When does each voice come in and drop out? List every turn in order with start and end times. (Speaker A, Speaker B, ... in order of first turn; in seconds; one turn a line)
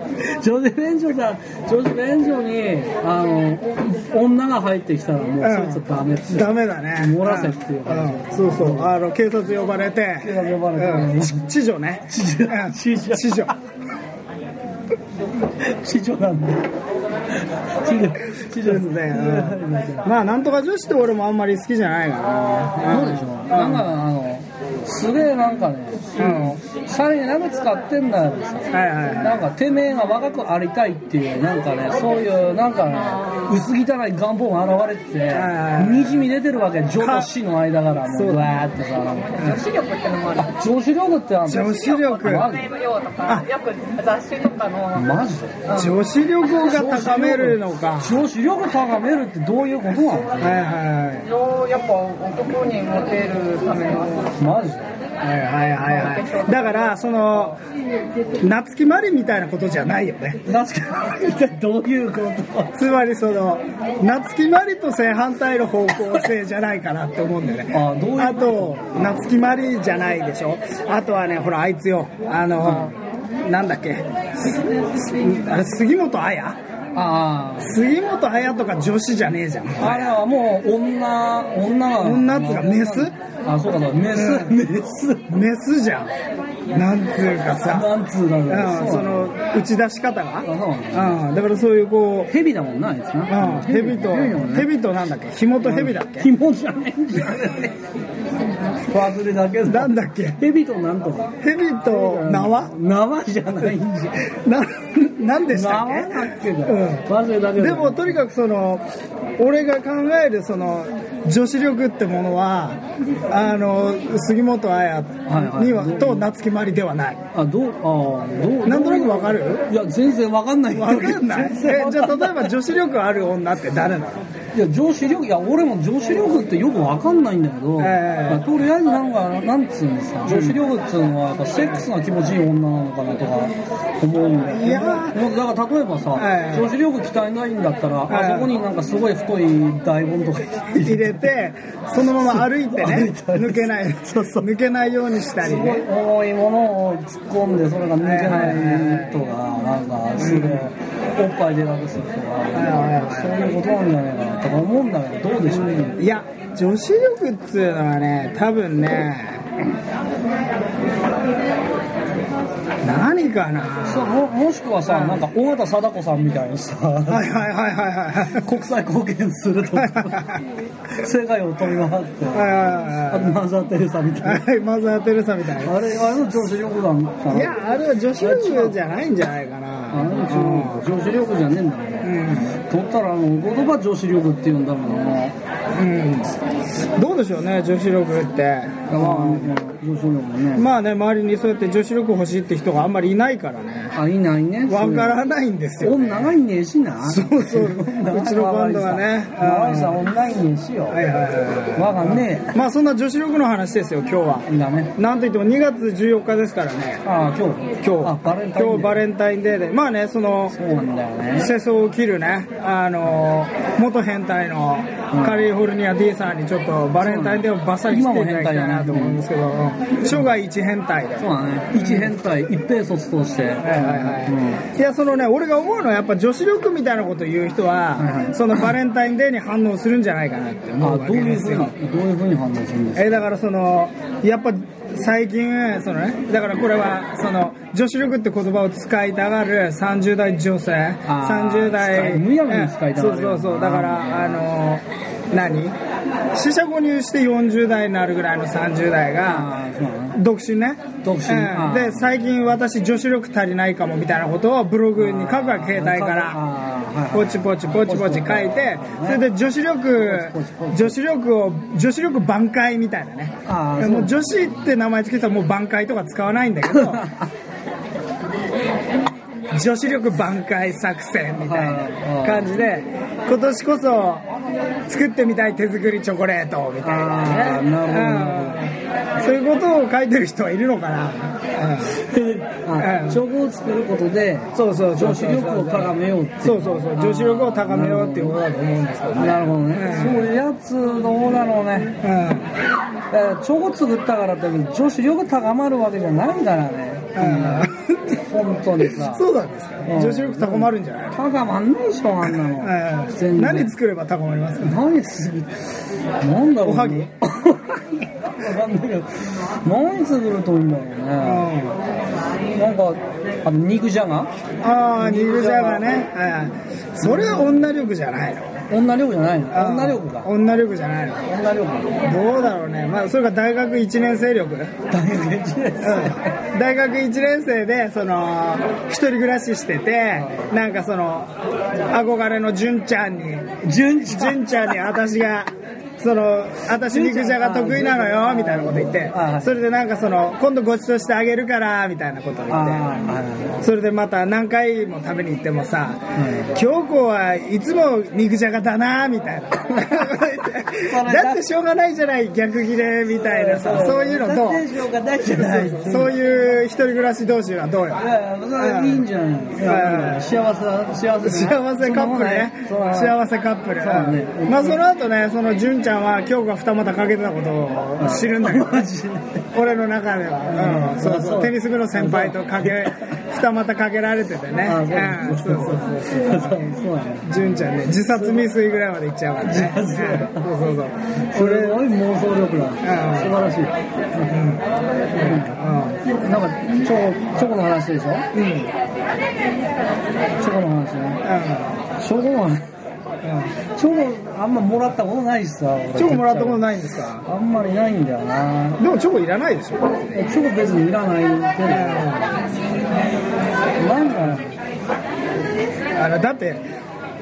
Speaker A: 0.2-9.0
Speaker B: 5.4-13.5
Speaker A: 10.2-11.5
Speaker A: 12.1-13.5
Speaker A: 15.6-16.7
Speaker A: 17.4-20.1
Speaker B: 18.6-23.9
Speaker A: 22.8-39.5
Speaker B: 26.1-26.6
Speaker B: 28.7-29.5
Speaker C: 33.1-33.4
Speaker B: 35.3-36.2
Speaker B: 37.0-37.3
Speaker B: 38.1-38.5
Speaker C: 39.3-40.5
Speaker A: 40.5-42.7
Speaker B: 41.5-42.5
Speaker C: 41.5-46.0
Speaker A: 44.9-45.6
Speaker B: 45.7-48.2
Speaker A: 46.6-50.6
Speaker B: 50.4-51.3
Speaker C: 51.2-54.4
Speaker A: 54.4-55.0
Speaker B: 55.2-57.6
Speaker C: 55.8-57.0
Speaker B: 58.4-60.4
Speaker A: 60.4-62.8
Speaker B: 62.8-76.6
Speaker A: 67.7-69.1
Speaker A: 72.6-72.9
Speaker A: 76.9-77.8
Speaker B: 77.6-80.2
Speaker A: 79.8-85.3
Speaker B: 82.0-83.1
Speaker B: 84.1-84.6
Speaker B: 85.3-86.1
Speaker B: 86.7-87.9
Speaker A: 87.7-89.4
Speaker B: 88.5-92.3
Speaker A: 90.4-91.2
Speaker A: 92.3-94.7
Speaker B: 93.3-96.3
Speaker A: 95.6-97.8
Speaker A: 98.8-101.3
Speaker B: 99.7-100.4
Speaker B: 101.4-102.7
Speaker A: 101.9-104.3
Speaker B: 104.2-108.8
Speaker A: 105.5-108.2
Speaker B: 109.4-117.2
Speaker A: 115.3-116.3
Speaker A: 117.3-122.5
Speaker B: 118.6-119.6
Speaker B: 120.7-124.2
Speaker A: 124.5-141.3
Speaker B: 127.8-128.5
Speaker B: 130.2-130.6
Speaker B: 131.6-131.9
Speaker B: 134.5-135.2
Speaker B: 136.2-136.7
Speaker B: 138.1-138.6
Speaker B: 140.7-145.9
Speaker A: 142.2-144.5
Speaker A: 145.4-156.0
Speaker B: 148.0-149.2
Speaker B: 150.2-150.7
Speaker B: 152.5-153.4
Speaker B: 155.8-159.5
Speaker B: 162.8-164.2
Speaker A: 163.8-167.4
Speaker B: 164.9-165.2
Speaker B: 167.1-168.5
Speaker A: 168.3-170.4
Speaker B: 169.7-170.4
Speaker A: 170.9-174.4
Speaker B: 172.3-173.4
Speaker B: 174.2-175.9
Speaker A: 175.6-177.6
Speaker B: 177.3-180.9
Speaker A: 178.2-178.8
Speaker A: 179.9-185.4
Speaker B: 182.0-182.5
Speaker B: 185.8-189.5
Speaker A: 188.9-190.7
Speaker B: 190.5-193.9
Speaker A: 193.9-195.2
Speaker B: 194.7-196.3
Speaker A: 195.8-201.0
Speaker B: 197.0-200.0
Speaker B: 200.9-207.0
Speaker A: 201.8-202.5
Speaker A: 204.5-204.9
Speaker A: 207.0-209.0
Speaker B: 207.8-210.6
Speaker A: 210.5-211.5
Speaker B: 211.4-222.1
Speaker A: 215.1-215.5
Speaker A: 217.0-219.2
Speaker A: 221.2-224.6
Speaker B: 223.6-231.7
Speaker A: 228.0-228.4
Speaker A: 230.8-233.2
Speaker B: 233.0-245.8
Speaker A: 241.0-244.4
Speaker B: 246.3-249.5
Speaker A: 249.2-250.2
Speaker B: 250.1-256.4
Speaker A: 251.0-252.2
Speaker A: 254.9-259.2
Speaker B: 257.1-267.1
Speaker A: 260.0-261.0
Speaker A: 263.4-264.3
Speaker A: 266.7-267.3
Speaker B: 269.5-274.3
Speaker A: 271.4-272.6
Speaker B: 274.9-282.0
Speaker A: 276.8-278.6
Speaker A: 281.9-288.4
Speaker B: 282.8-283.2
Speaker B: 284.5-290.3
Speaker A: 289.1-291.9
Speaker B: 292.0-292.5
Speaker A: 293.1-299.2
Speaker B: 297.1-298.2
Speaker B: 298.8-301.2
Speaker A: 299.8-303.8
Speaker B: 302.4-304.8
Speaker A: 304.6-305.6
Speaker A: 306.2-311.5
Speaker B: 306.6-307.1
Speaker B: 311.2-311.8
Speaker A: 312.5-314.3
Speaker B: 314.6-318.6
Speaker A: 315.0-315.9
Speaker A: 317.0-317.5
Speaker A: 318.7-320.3
Speaker B: 319.5-321.3
Speaker A: 321.2-322.0
Speaker B: 322.0-324.8
Speaker A: 324.9-326.4
Speaker B: 325.8-331.3
Speaker A: 330.1-330.5
Speaker B: 331.9-333.5
Speaker A: 333.6-334.8
Speaker B: 334.1-342.9
Speaker A: 336.9-339.6
Speaker A: 342.5-343.6
Speaker B: 343.6-354.7
Speaker A: 346.1-346.6
Speaker A: 349.8-350.1
Speaker A: 350.7-351.4
Speaker A: 353.1-356.2
Speaker B: 355.2-359.1
Speaker A: 357.9-363.2
Speaker B: 359.6-360.3
Speaker B: 361.2-368.9
Speaker A: 363.8-364.8
Speaker A: 368.0-369.4
Speaker B: 369.5-381.9
Speaker A: 370.5-373.1
Speaker A: 374.6-378.5
Speaker A: 379.4-380.5
Speaker A: 381.3-384.3
Speaker B: 382.8-383.4
Speaker B: 384.3-384.6
Speaker A: 385.1-388.2
Speaker B: 385.2-386.0
Speaker B: 388.3-388.7
Speaker A: 390.4-391.2
Speaker B: 391.2-391.8
Speaker A: 391.9-392.6
Speaker B: 393.2-393.5
Speaker A: 393.7-398.8
Speaker B: 395.9-397.2
Speaker B: 398.8-400.2
Speaker A: 400.1-402.1
Speaker B: 401.6-402.4
Speaker A: 403.8-404.6
Speaker B: 406.0-406.6